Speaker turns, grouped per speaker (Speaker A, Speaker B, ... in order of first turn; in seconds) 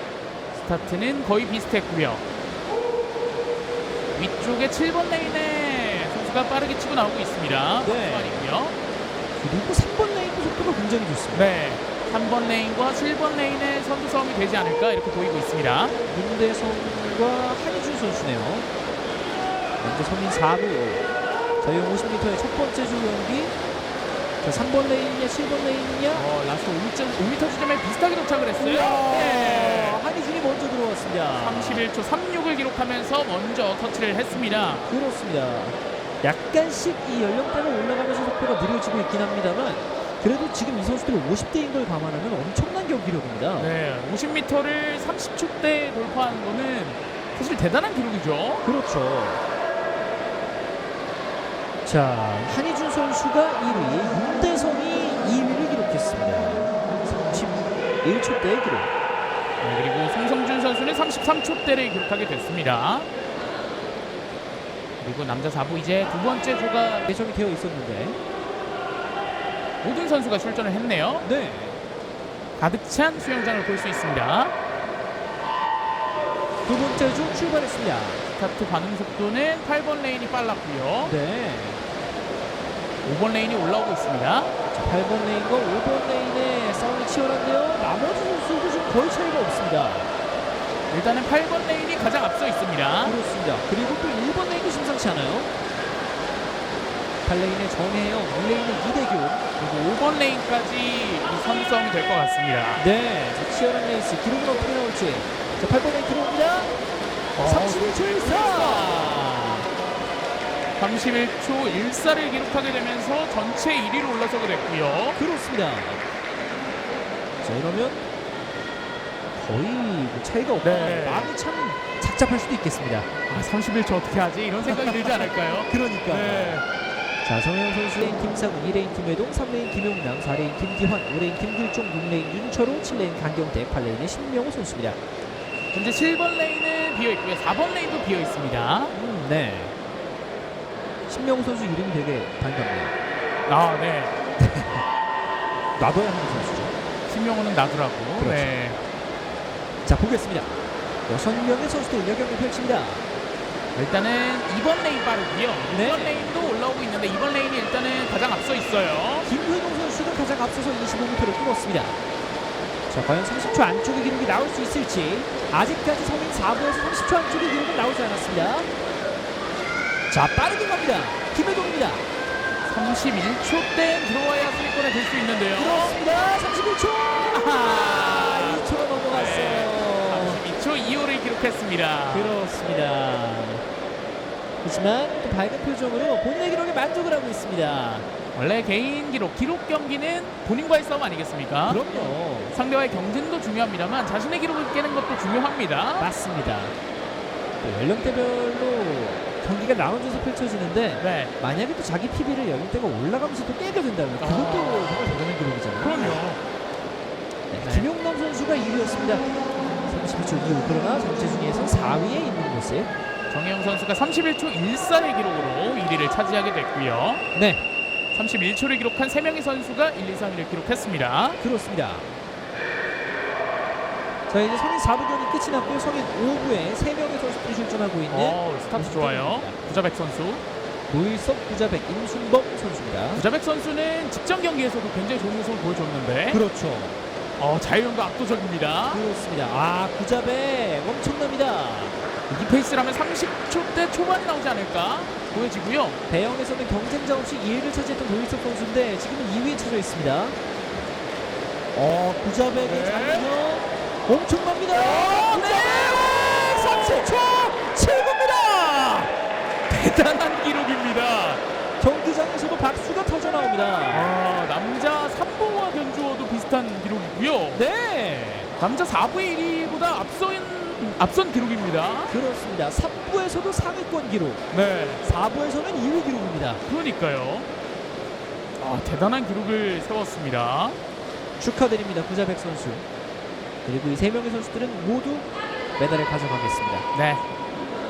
Speaker A: 0.6-2.2, 4.1-8.8, 11.3-16.0, 26.1-30.0, 31.4-34.9, 43.6-48.6, 59.6-63.1, 65.0-67.1, 69.8-71.3, 72.6-74.5, 78.3-81.1, 83.0-84.5, 90.9-93.2, 99.6-102.8, 107.3-109.3, 110.8-115.2, 120.6-121.3, 123.3-126.7, 135.7-138.9, 143.5-144.1, 147.1-148.8, 153.8-159.3, 172.7-176.0, 177.3-182.4, 188.3-196.1, 201.0-201.3, 204.2-205.1, 205.8-206.4, 207.6-207.9, 213.3-217.2, 218.1-221.4, 228.1-230.4, 233.2-236.4, 237.4-239.0, 242.3-246.0, 252.6-253.3, 254.7-257.2, 259.8-261.4, 263.9-267.6, 268.6-272.2, 274.5-275.0, 276.7-277.5, 278.6-280.8, 286.9-287.3
Speaker B: 7.8-8.5, 9.4-11.6, 16.1-18.7, 19.8-21.0, 21.6-23.6, 24.4-26.3, 28.6-31.8, 34.8-43.8, 48.6-49.4, 51.9-58.9, 67.1-68.2, 71.2-71.8, 76.7-78.2, 81.0-81.8, 84.7-90.1, 93.0-95.5, 97.2-99.5, 102.8-106.7, 107.4-109.7, 115.1-116.0, 117.4-118.0, 119.3-123.1, 124.7-126.6, 127.2-135.0, 138.9-139.8, 141.1-143.0, 144.4-144.8, 145.8-146.7, 148.2-148.5, 149.8-153.1, 155.7-156.3, 159.2-162.0, 162.9-168.7, 170.1-172.1, 175.6-180.4, 182.1-183.6, 184.6-188.1, 191.7-192.5, 196.0-196.8, 197.6-206.2, 207.5-209.3, 209.9-212.9, 217.3-217.6, 221.4-222.1, 224.3-229.6, 230.9-233.2, 236.3-237.0, 238.9-242.0, 246.1-250.4, 251.7-259.1, 259.7-260.3, 261.8-264.1, 267.5-268.5, 272.1-274.4, 275.0-276.6, 281.4-282.9, 283.7-285.3, 285.8-286.9